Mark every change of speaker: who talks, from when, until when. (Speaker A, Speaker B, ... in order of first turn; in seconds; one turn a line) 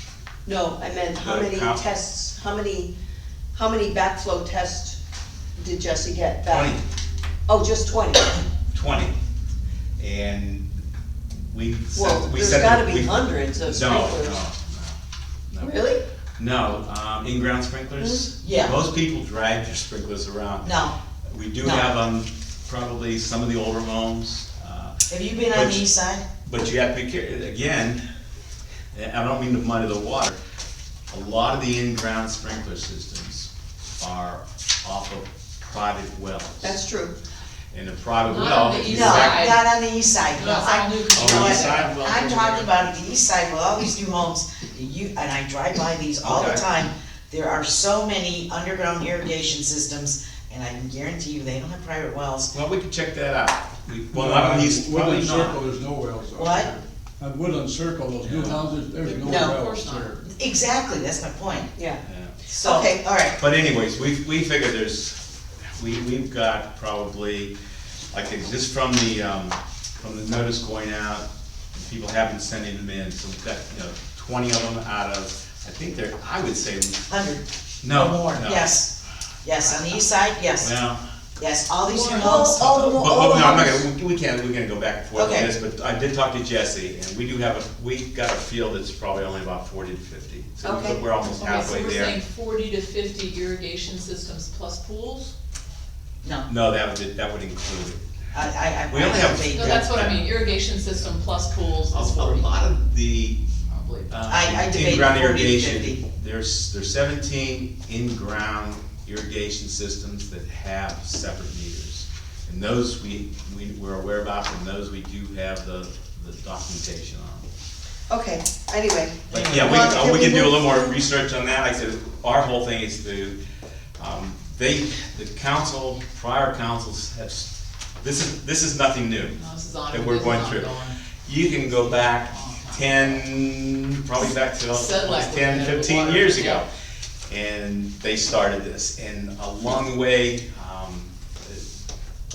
Speaker A: 0.5-2.9
Speaker B: 1.2-1.8
Speaker A: 3.5-5.0
Speaker A: 5.6-6.8
Speaker B: 6.5-6.8
Speaker A: 7.5-8.4
Speaker B: 8.7-9.2
Speaker B: 10.0-10.7
Speaker B: 11.5-15.8
Speaker A: 11.9-14.4
Speaker A: 15.6-16.0
Speaker B: 16.4-20.7
Speaker A: 18.0-18.3
Speaker C: 18.4-18.8
Speaker C: 20.6-21.0
Speaker B: 21.3-25.9
Speaker C: 21.6-21.9
Speaker C: 25.1-26.3
Speaker B: 26.4-28.0
Speaker B: 28.9-30.4
Speaker B: 31.1-36.8
Speaker A: 36.6-37.1
Speaker B: 37.7-39.5
Speaker D: 38.2-39.7
Speaker C: 38.9-52.5
Speaker D: 40.3-42.7
Speaker B: 41.1-41.9
Speaker B: 46.2-46.6
Speaker B: 52.5-55.6
Speaker E: 54.1-60.2
Speaker C: 56.4-56.7
Speaker B: 58.2-58.6
Speaker D: 58.4-60.2
Speaker A: 59.2-59.6
Speaker C: 60.3-61.7
Speaker A: 61.8-62.0
Speaker B: 62.0-62.4
Speaker C: 62.5-63.4
Speaker A: 62.6-63.0
Speaker B: 63.4-65.2
Speaker B: 65.8-67.5
Speaker B: 68.1-78.7
Speaker C: 77.1-78.9
Speaker C: 79.4-80.8
Speaker B: 80.6-81.0
Speaker C: 81.4-83.8
Speaker D: 81.9-82.6
Speaker B: 82.3-92.2
Speaker C: 85.2-85.5
Speaker A: 90.6-91.0
Speaker D: 91.3-95.3
Speaker C: 96.2-96.5
Speaker B: 96.5-98.0
Speaker C: 98.3-99.9
Speaker B: 98.9-101.1
Speaker D: 99.5-102.5
Speaker B: 101.9-103.5
Speaker D: 103.7-104.1
Speaker B: 104.1-117.5
Speaker C: 104.3-106.0
Speaker A: 118.1-120.9
Speaker B: 119.3-123.4
Speaker C: 119.3-119.8
Speaker B: 124.0-127.5
Speaker B: 128.0-129.4
Speaker D: 129.3-133.3
Speaker B: 129.9-130.7
Speaker B: 131.2-136.7
Speaker D: 134.2-136.6
Speaker B: 137.3-141.6